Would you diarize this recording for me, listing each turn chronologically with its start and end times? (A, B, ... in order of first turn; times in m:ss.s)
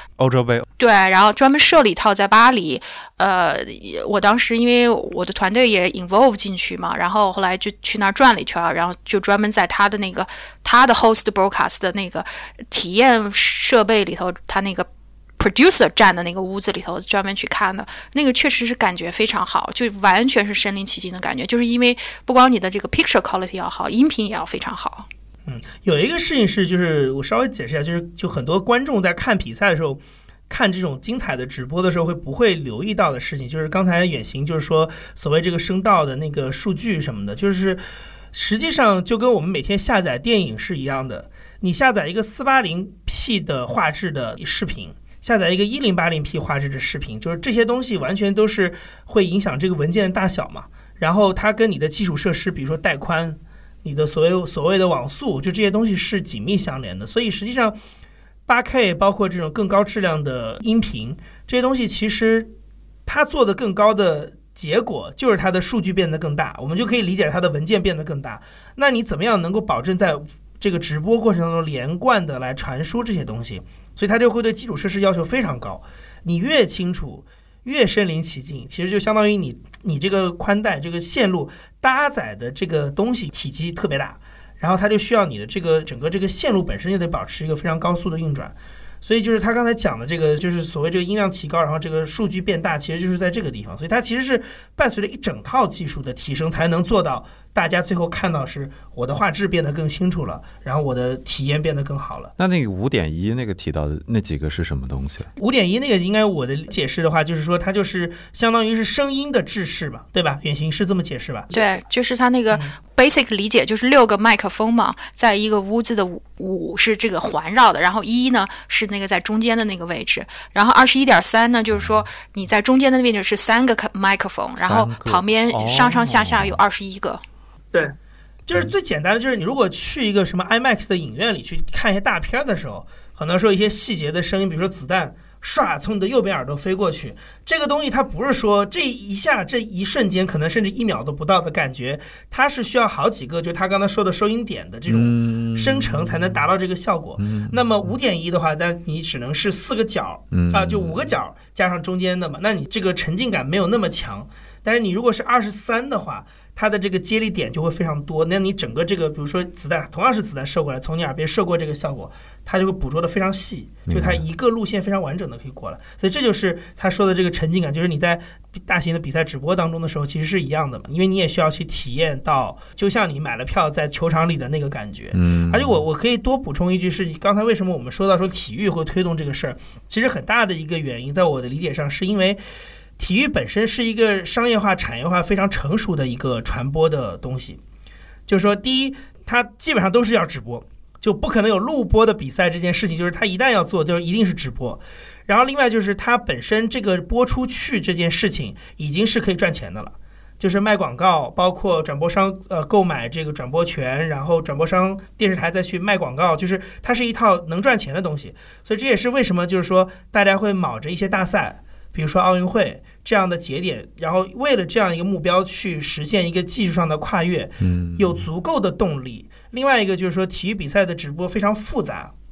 0:00.2-0:00.7 A
0:00.8-0:25.1 B
0:25.5-0:37.8 C
0:38.3-0:57.8 C
0:58.5-1:02.5 C
1:03.1-1:42.3 C
1:42.4-1:45.3 A
1:45.4-1:51.5 C
1:51.5-2:07.2 B
2:04.6-2:06.6 A
2:07.7-3:02.4 C
2:24.9-2:26.4 A
2:27.2-2:27.6 A
2:30.3-2:31.1 A
2:43.9-2:44.2 A
2:55.1-2:55.8 A
3:03.0-3:07.6 C
3:08.3-3:42.1 C
3:37.6-3:38.2 A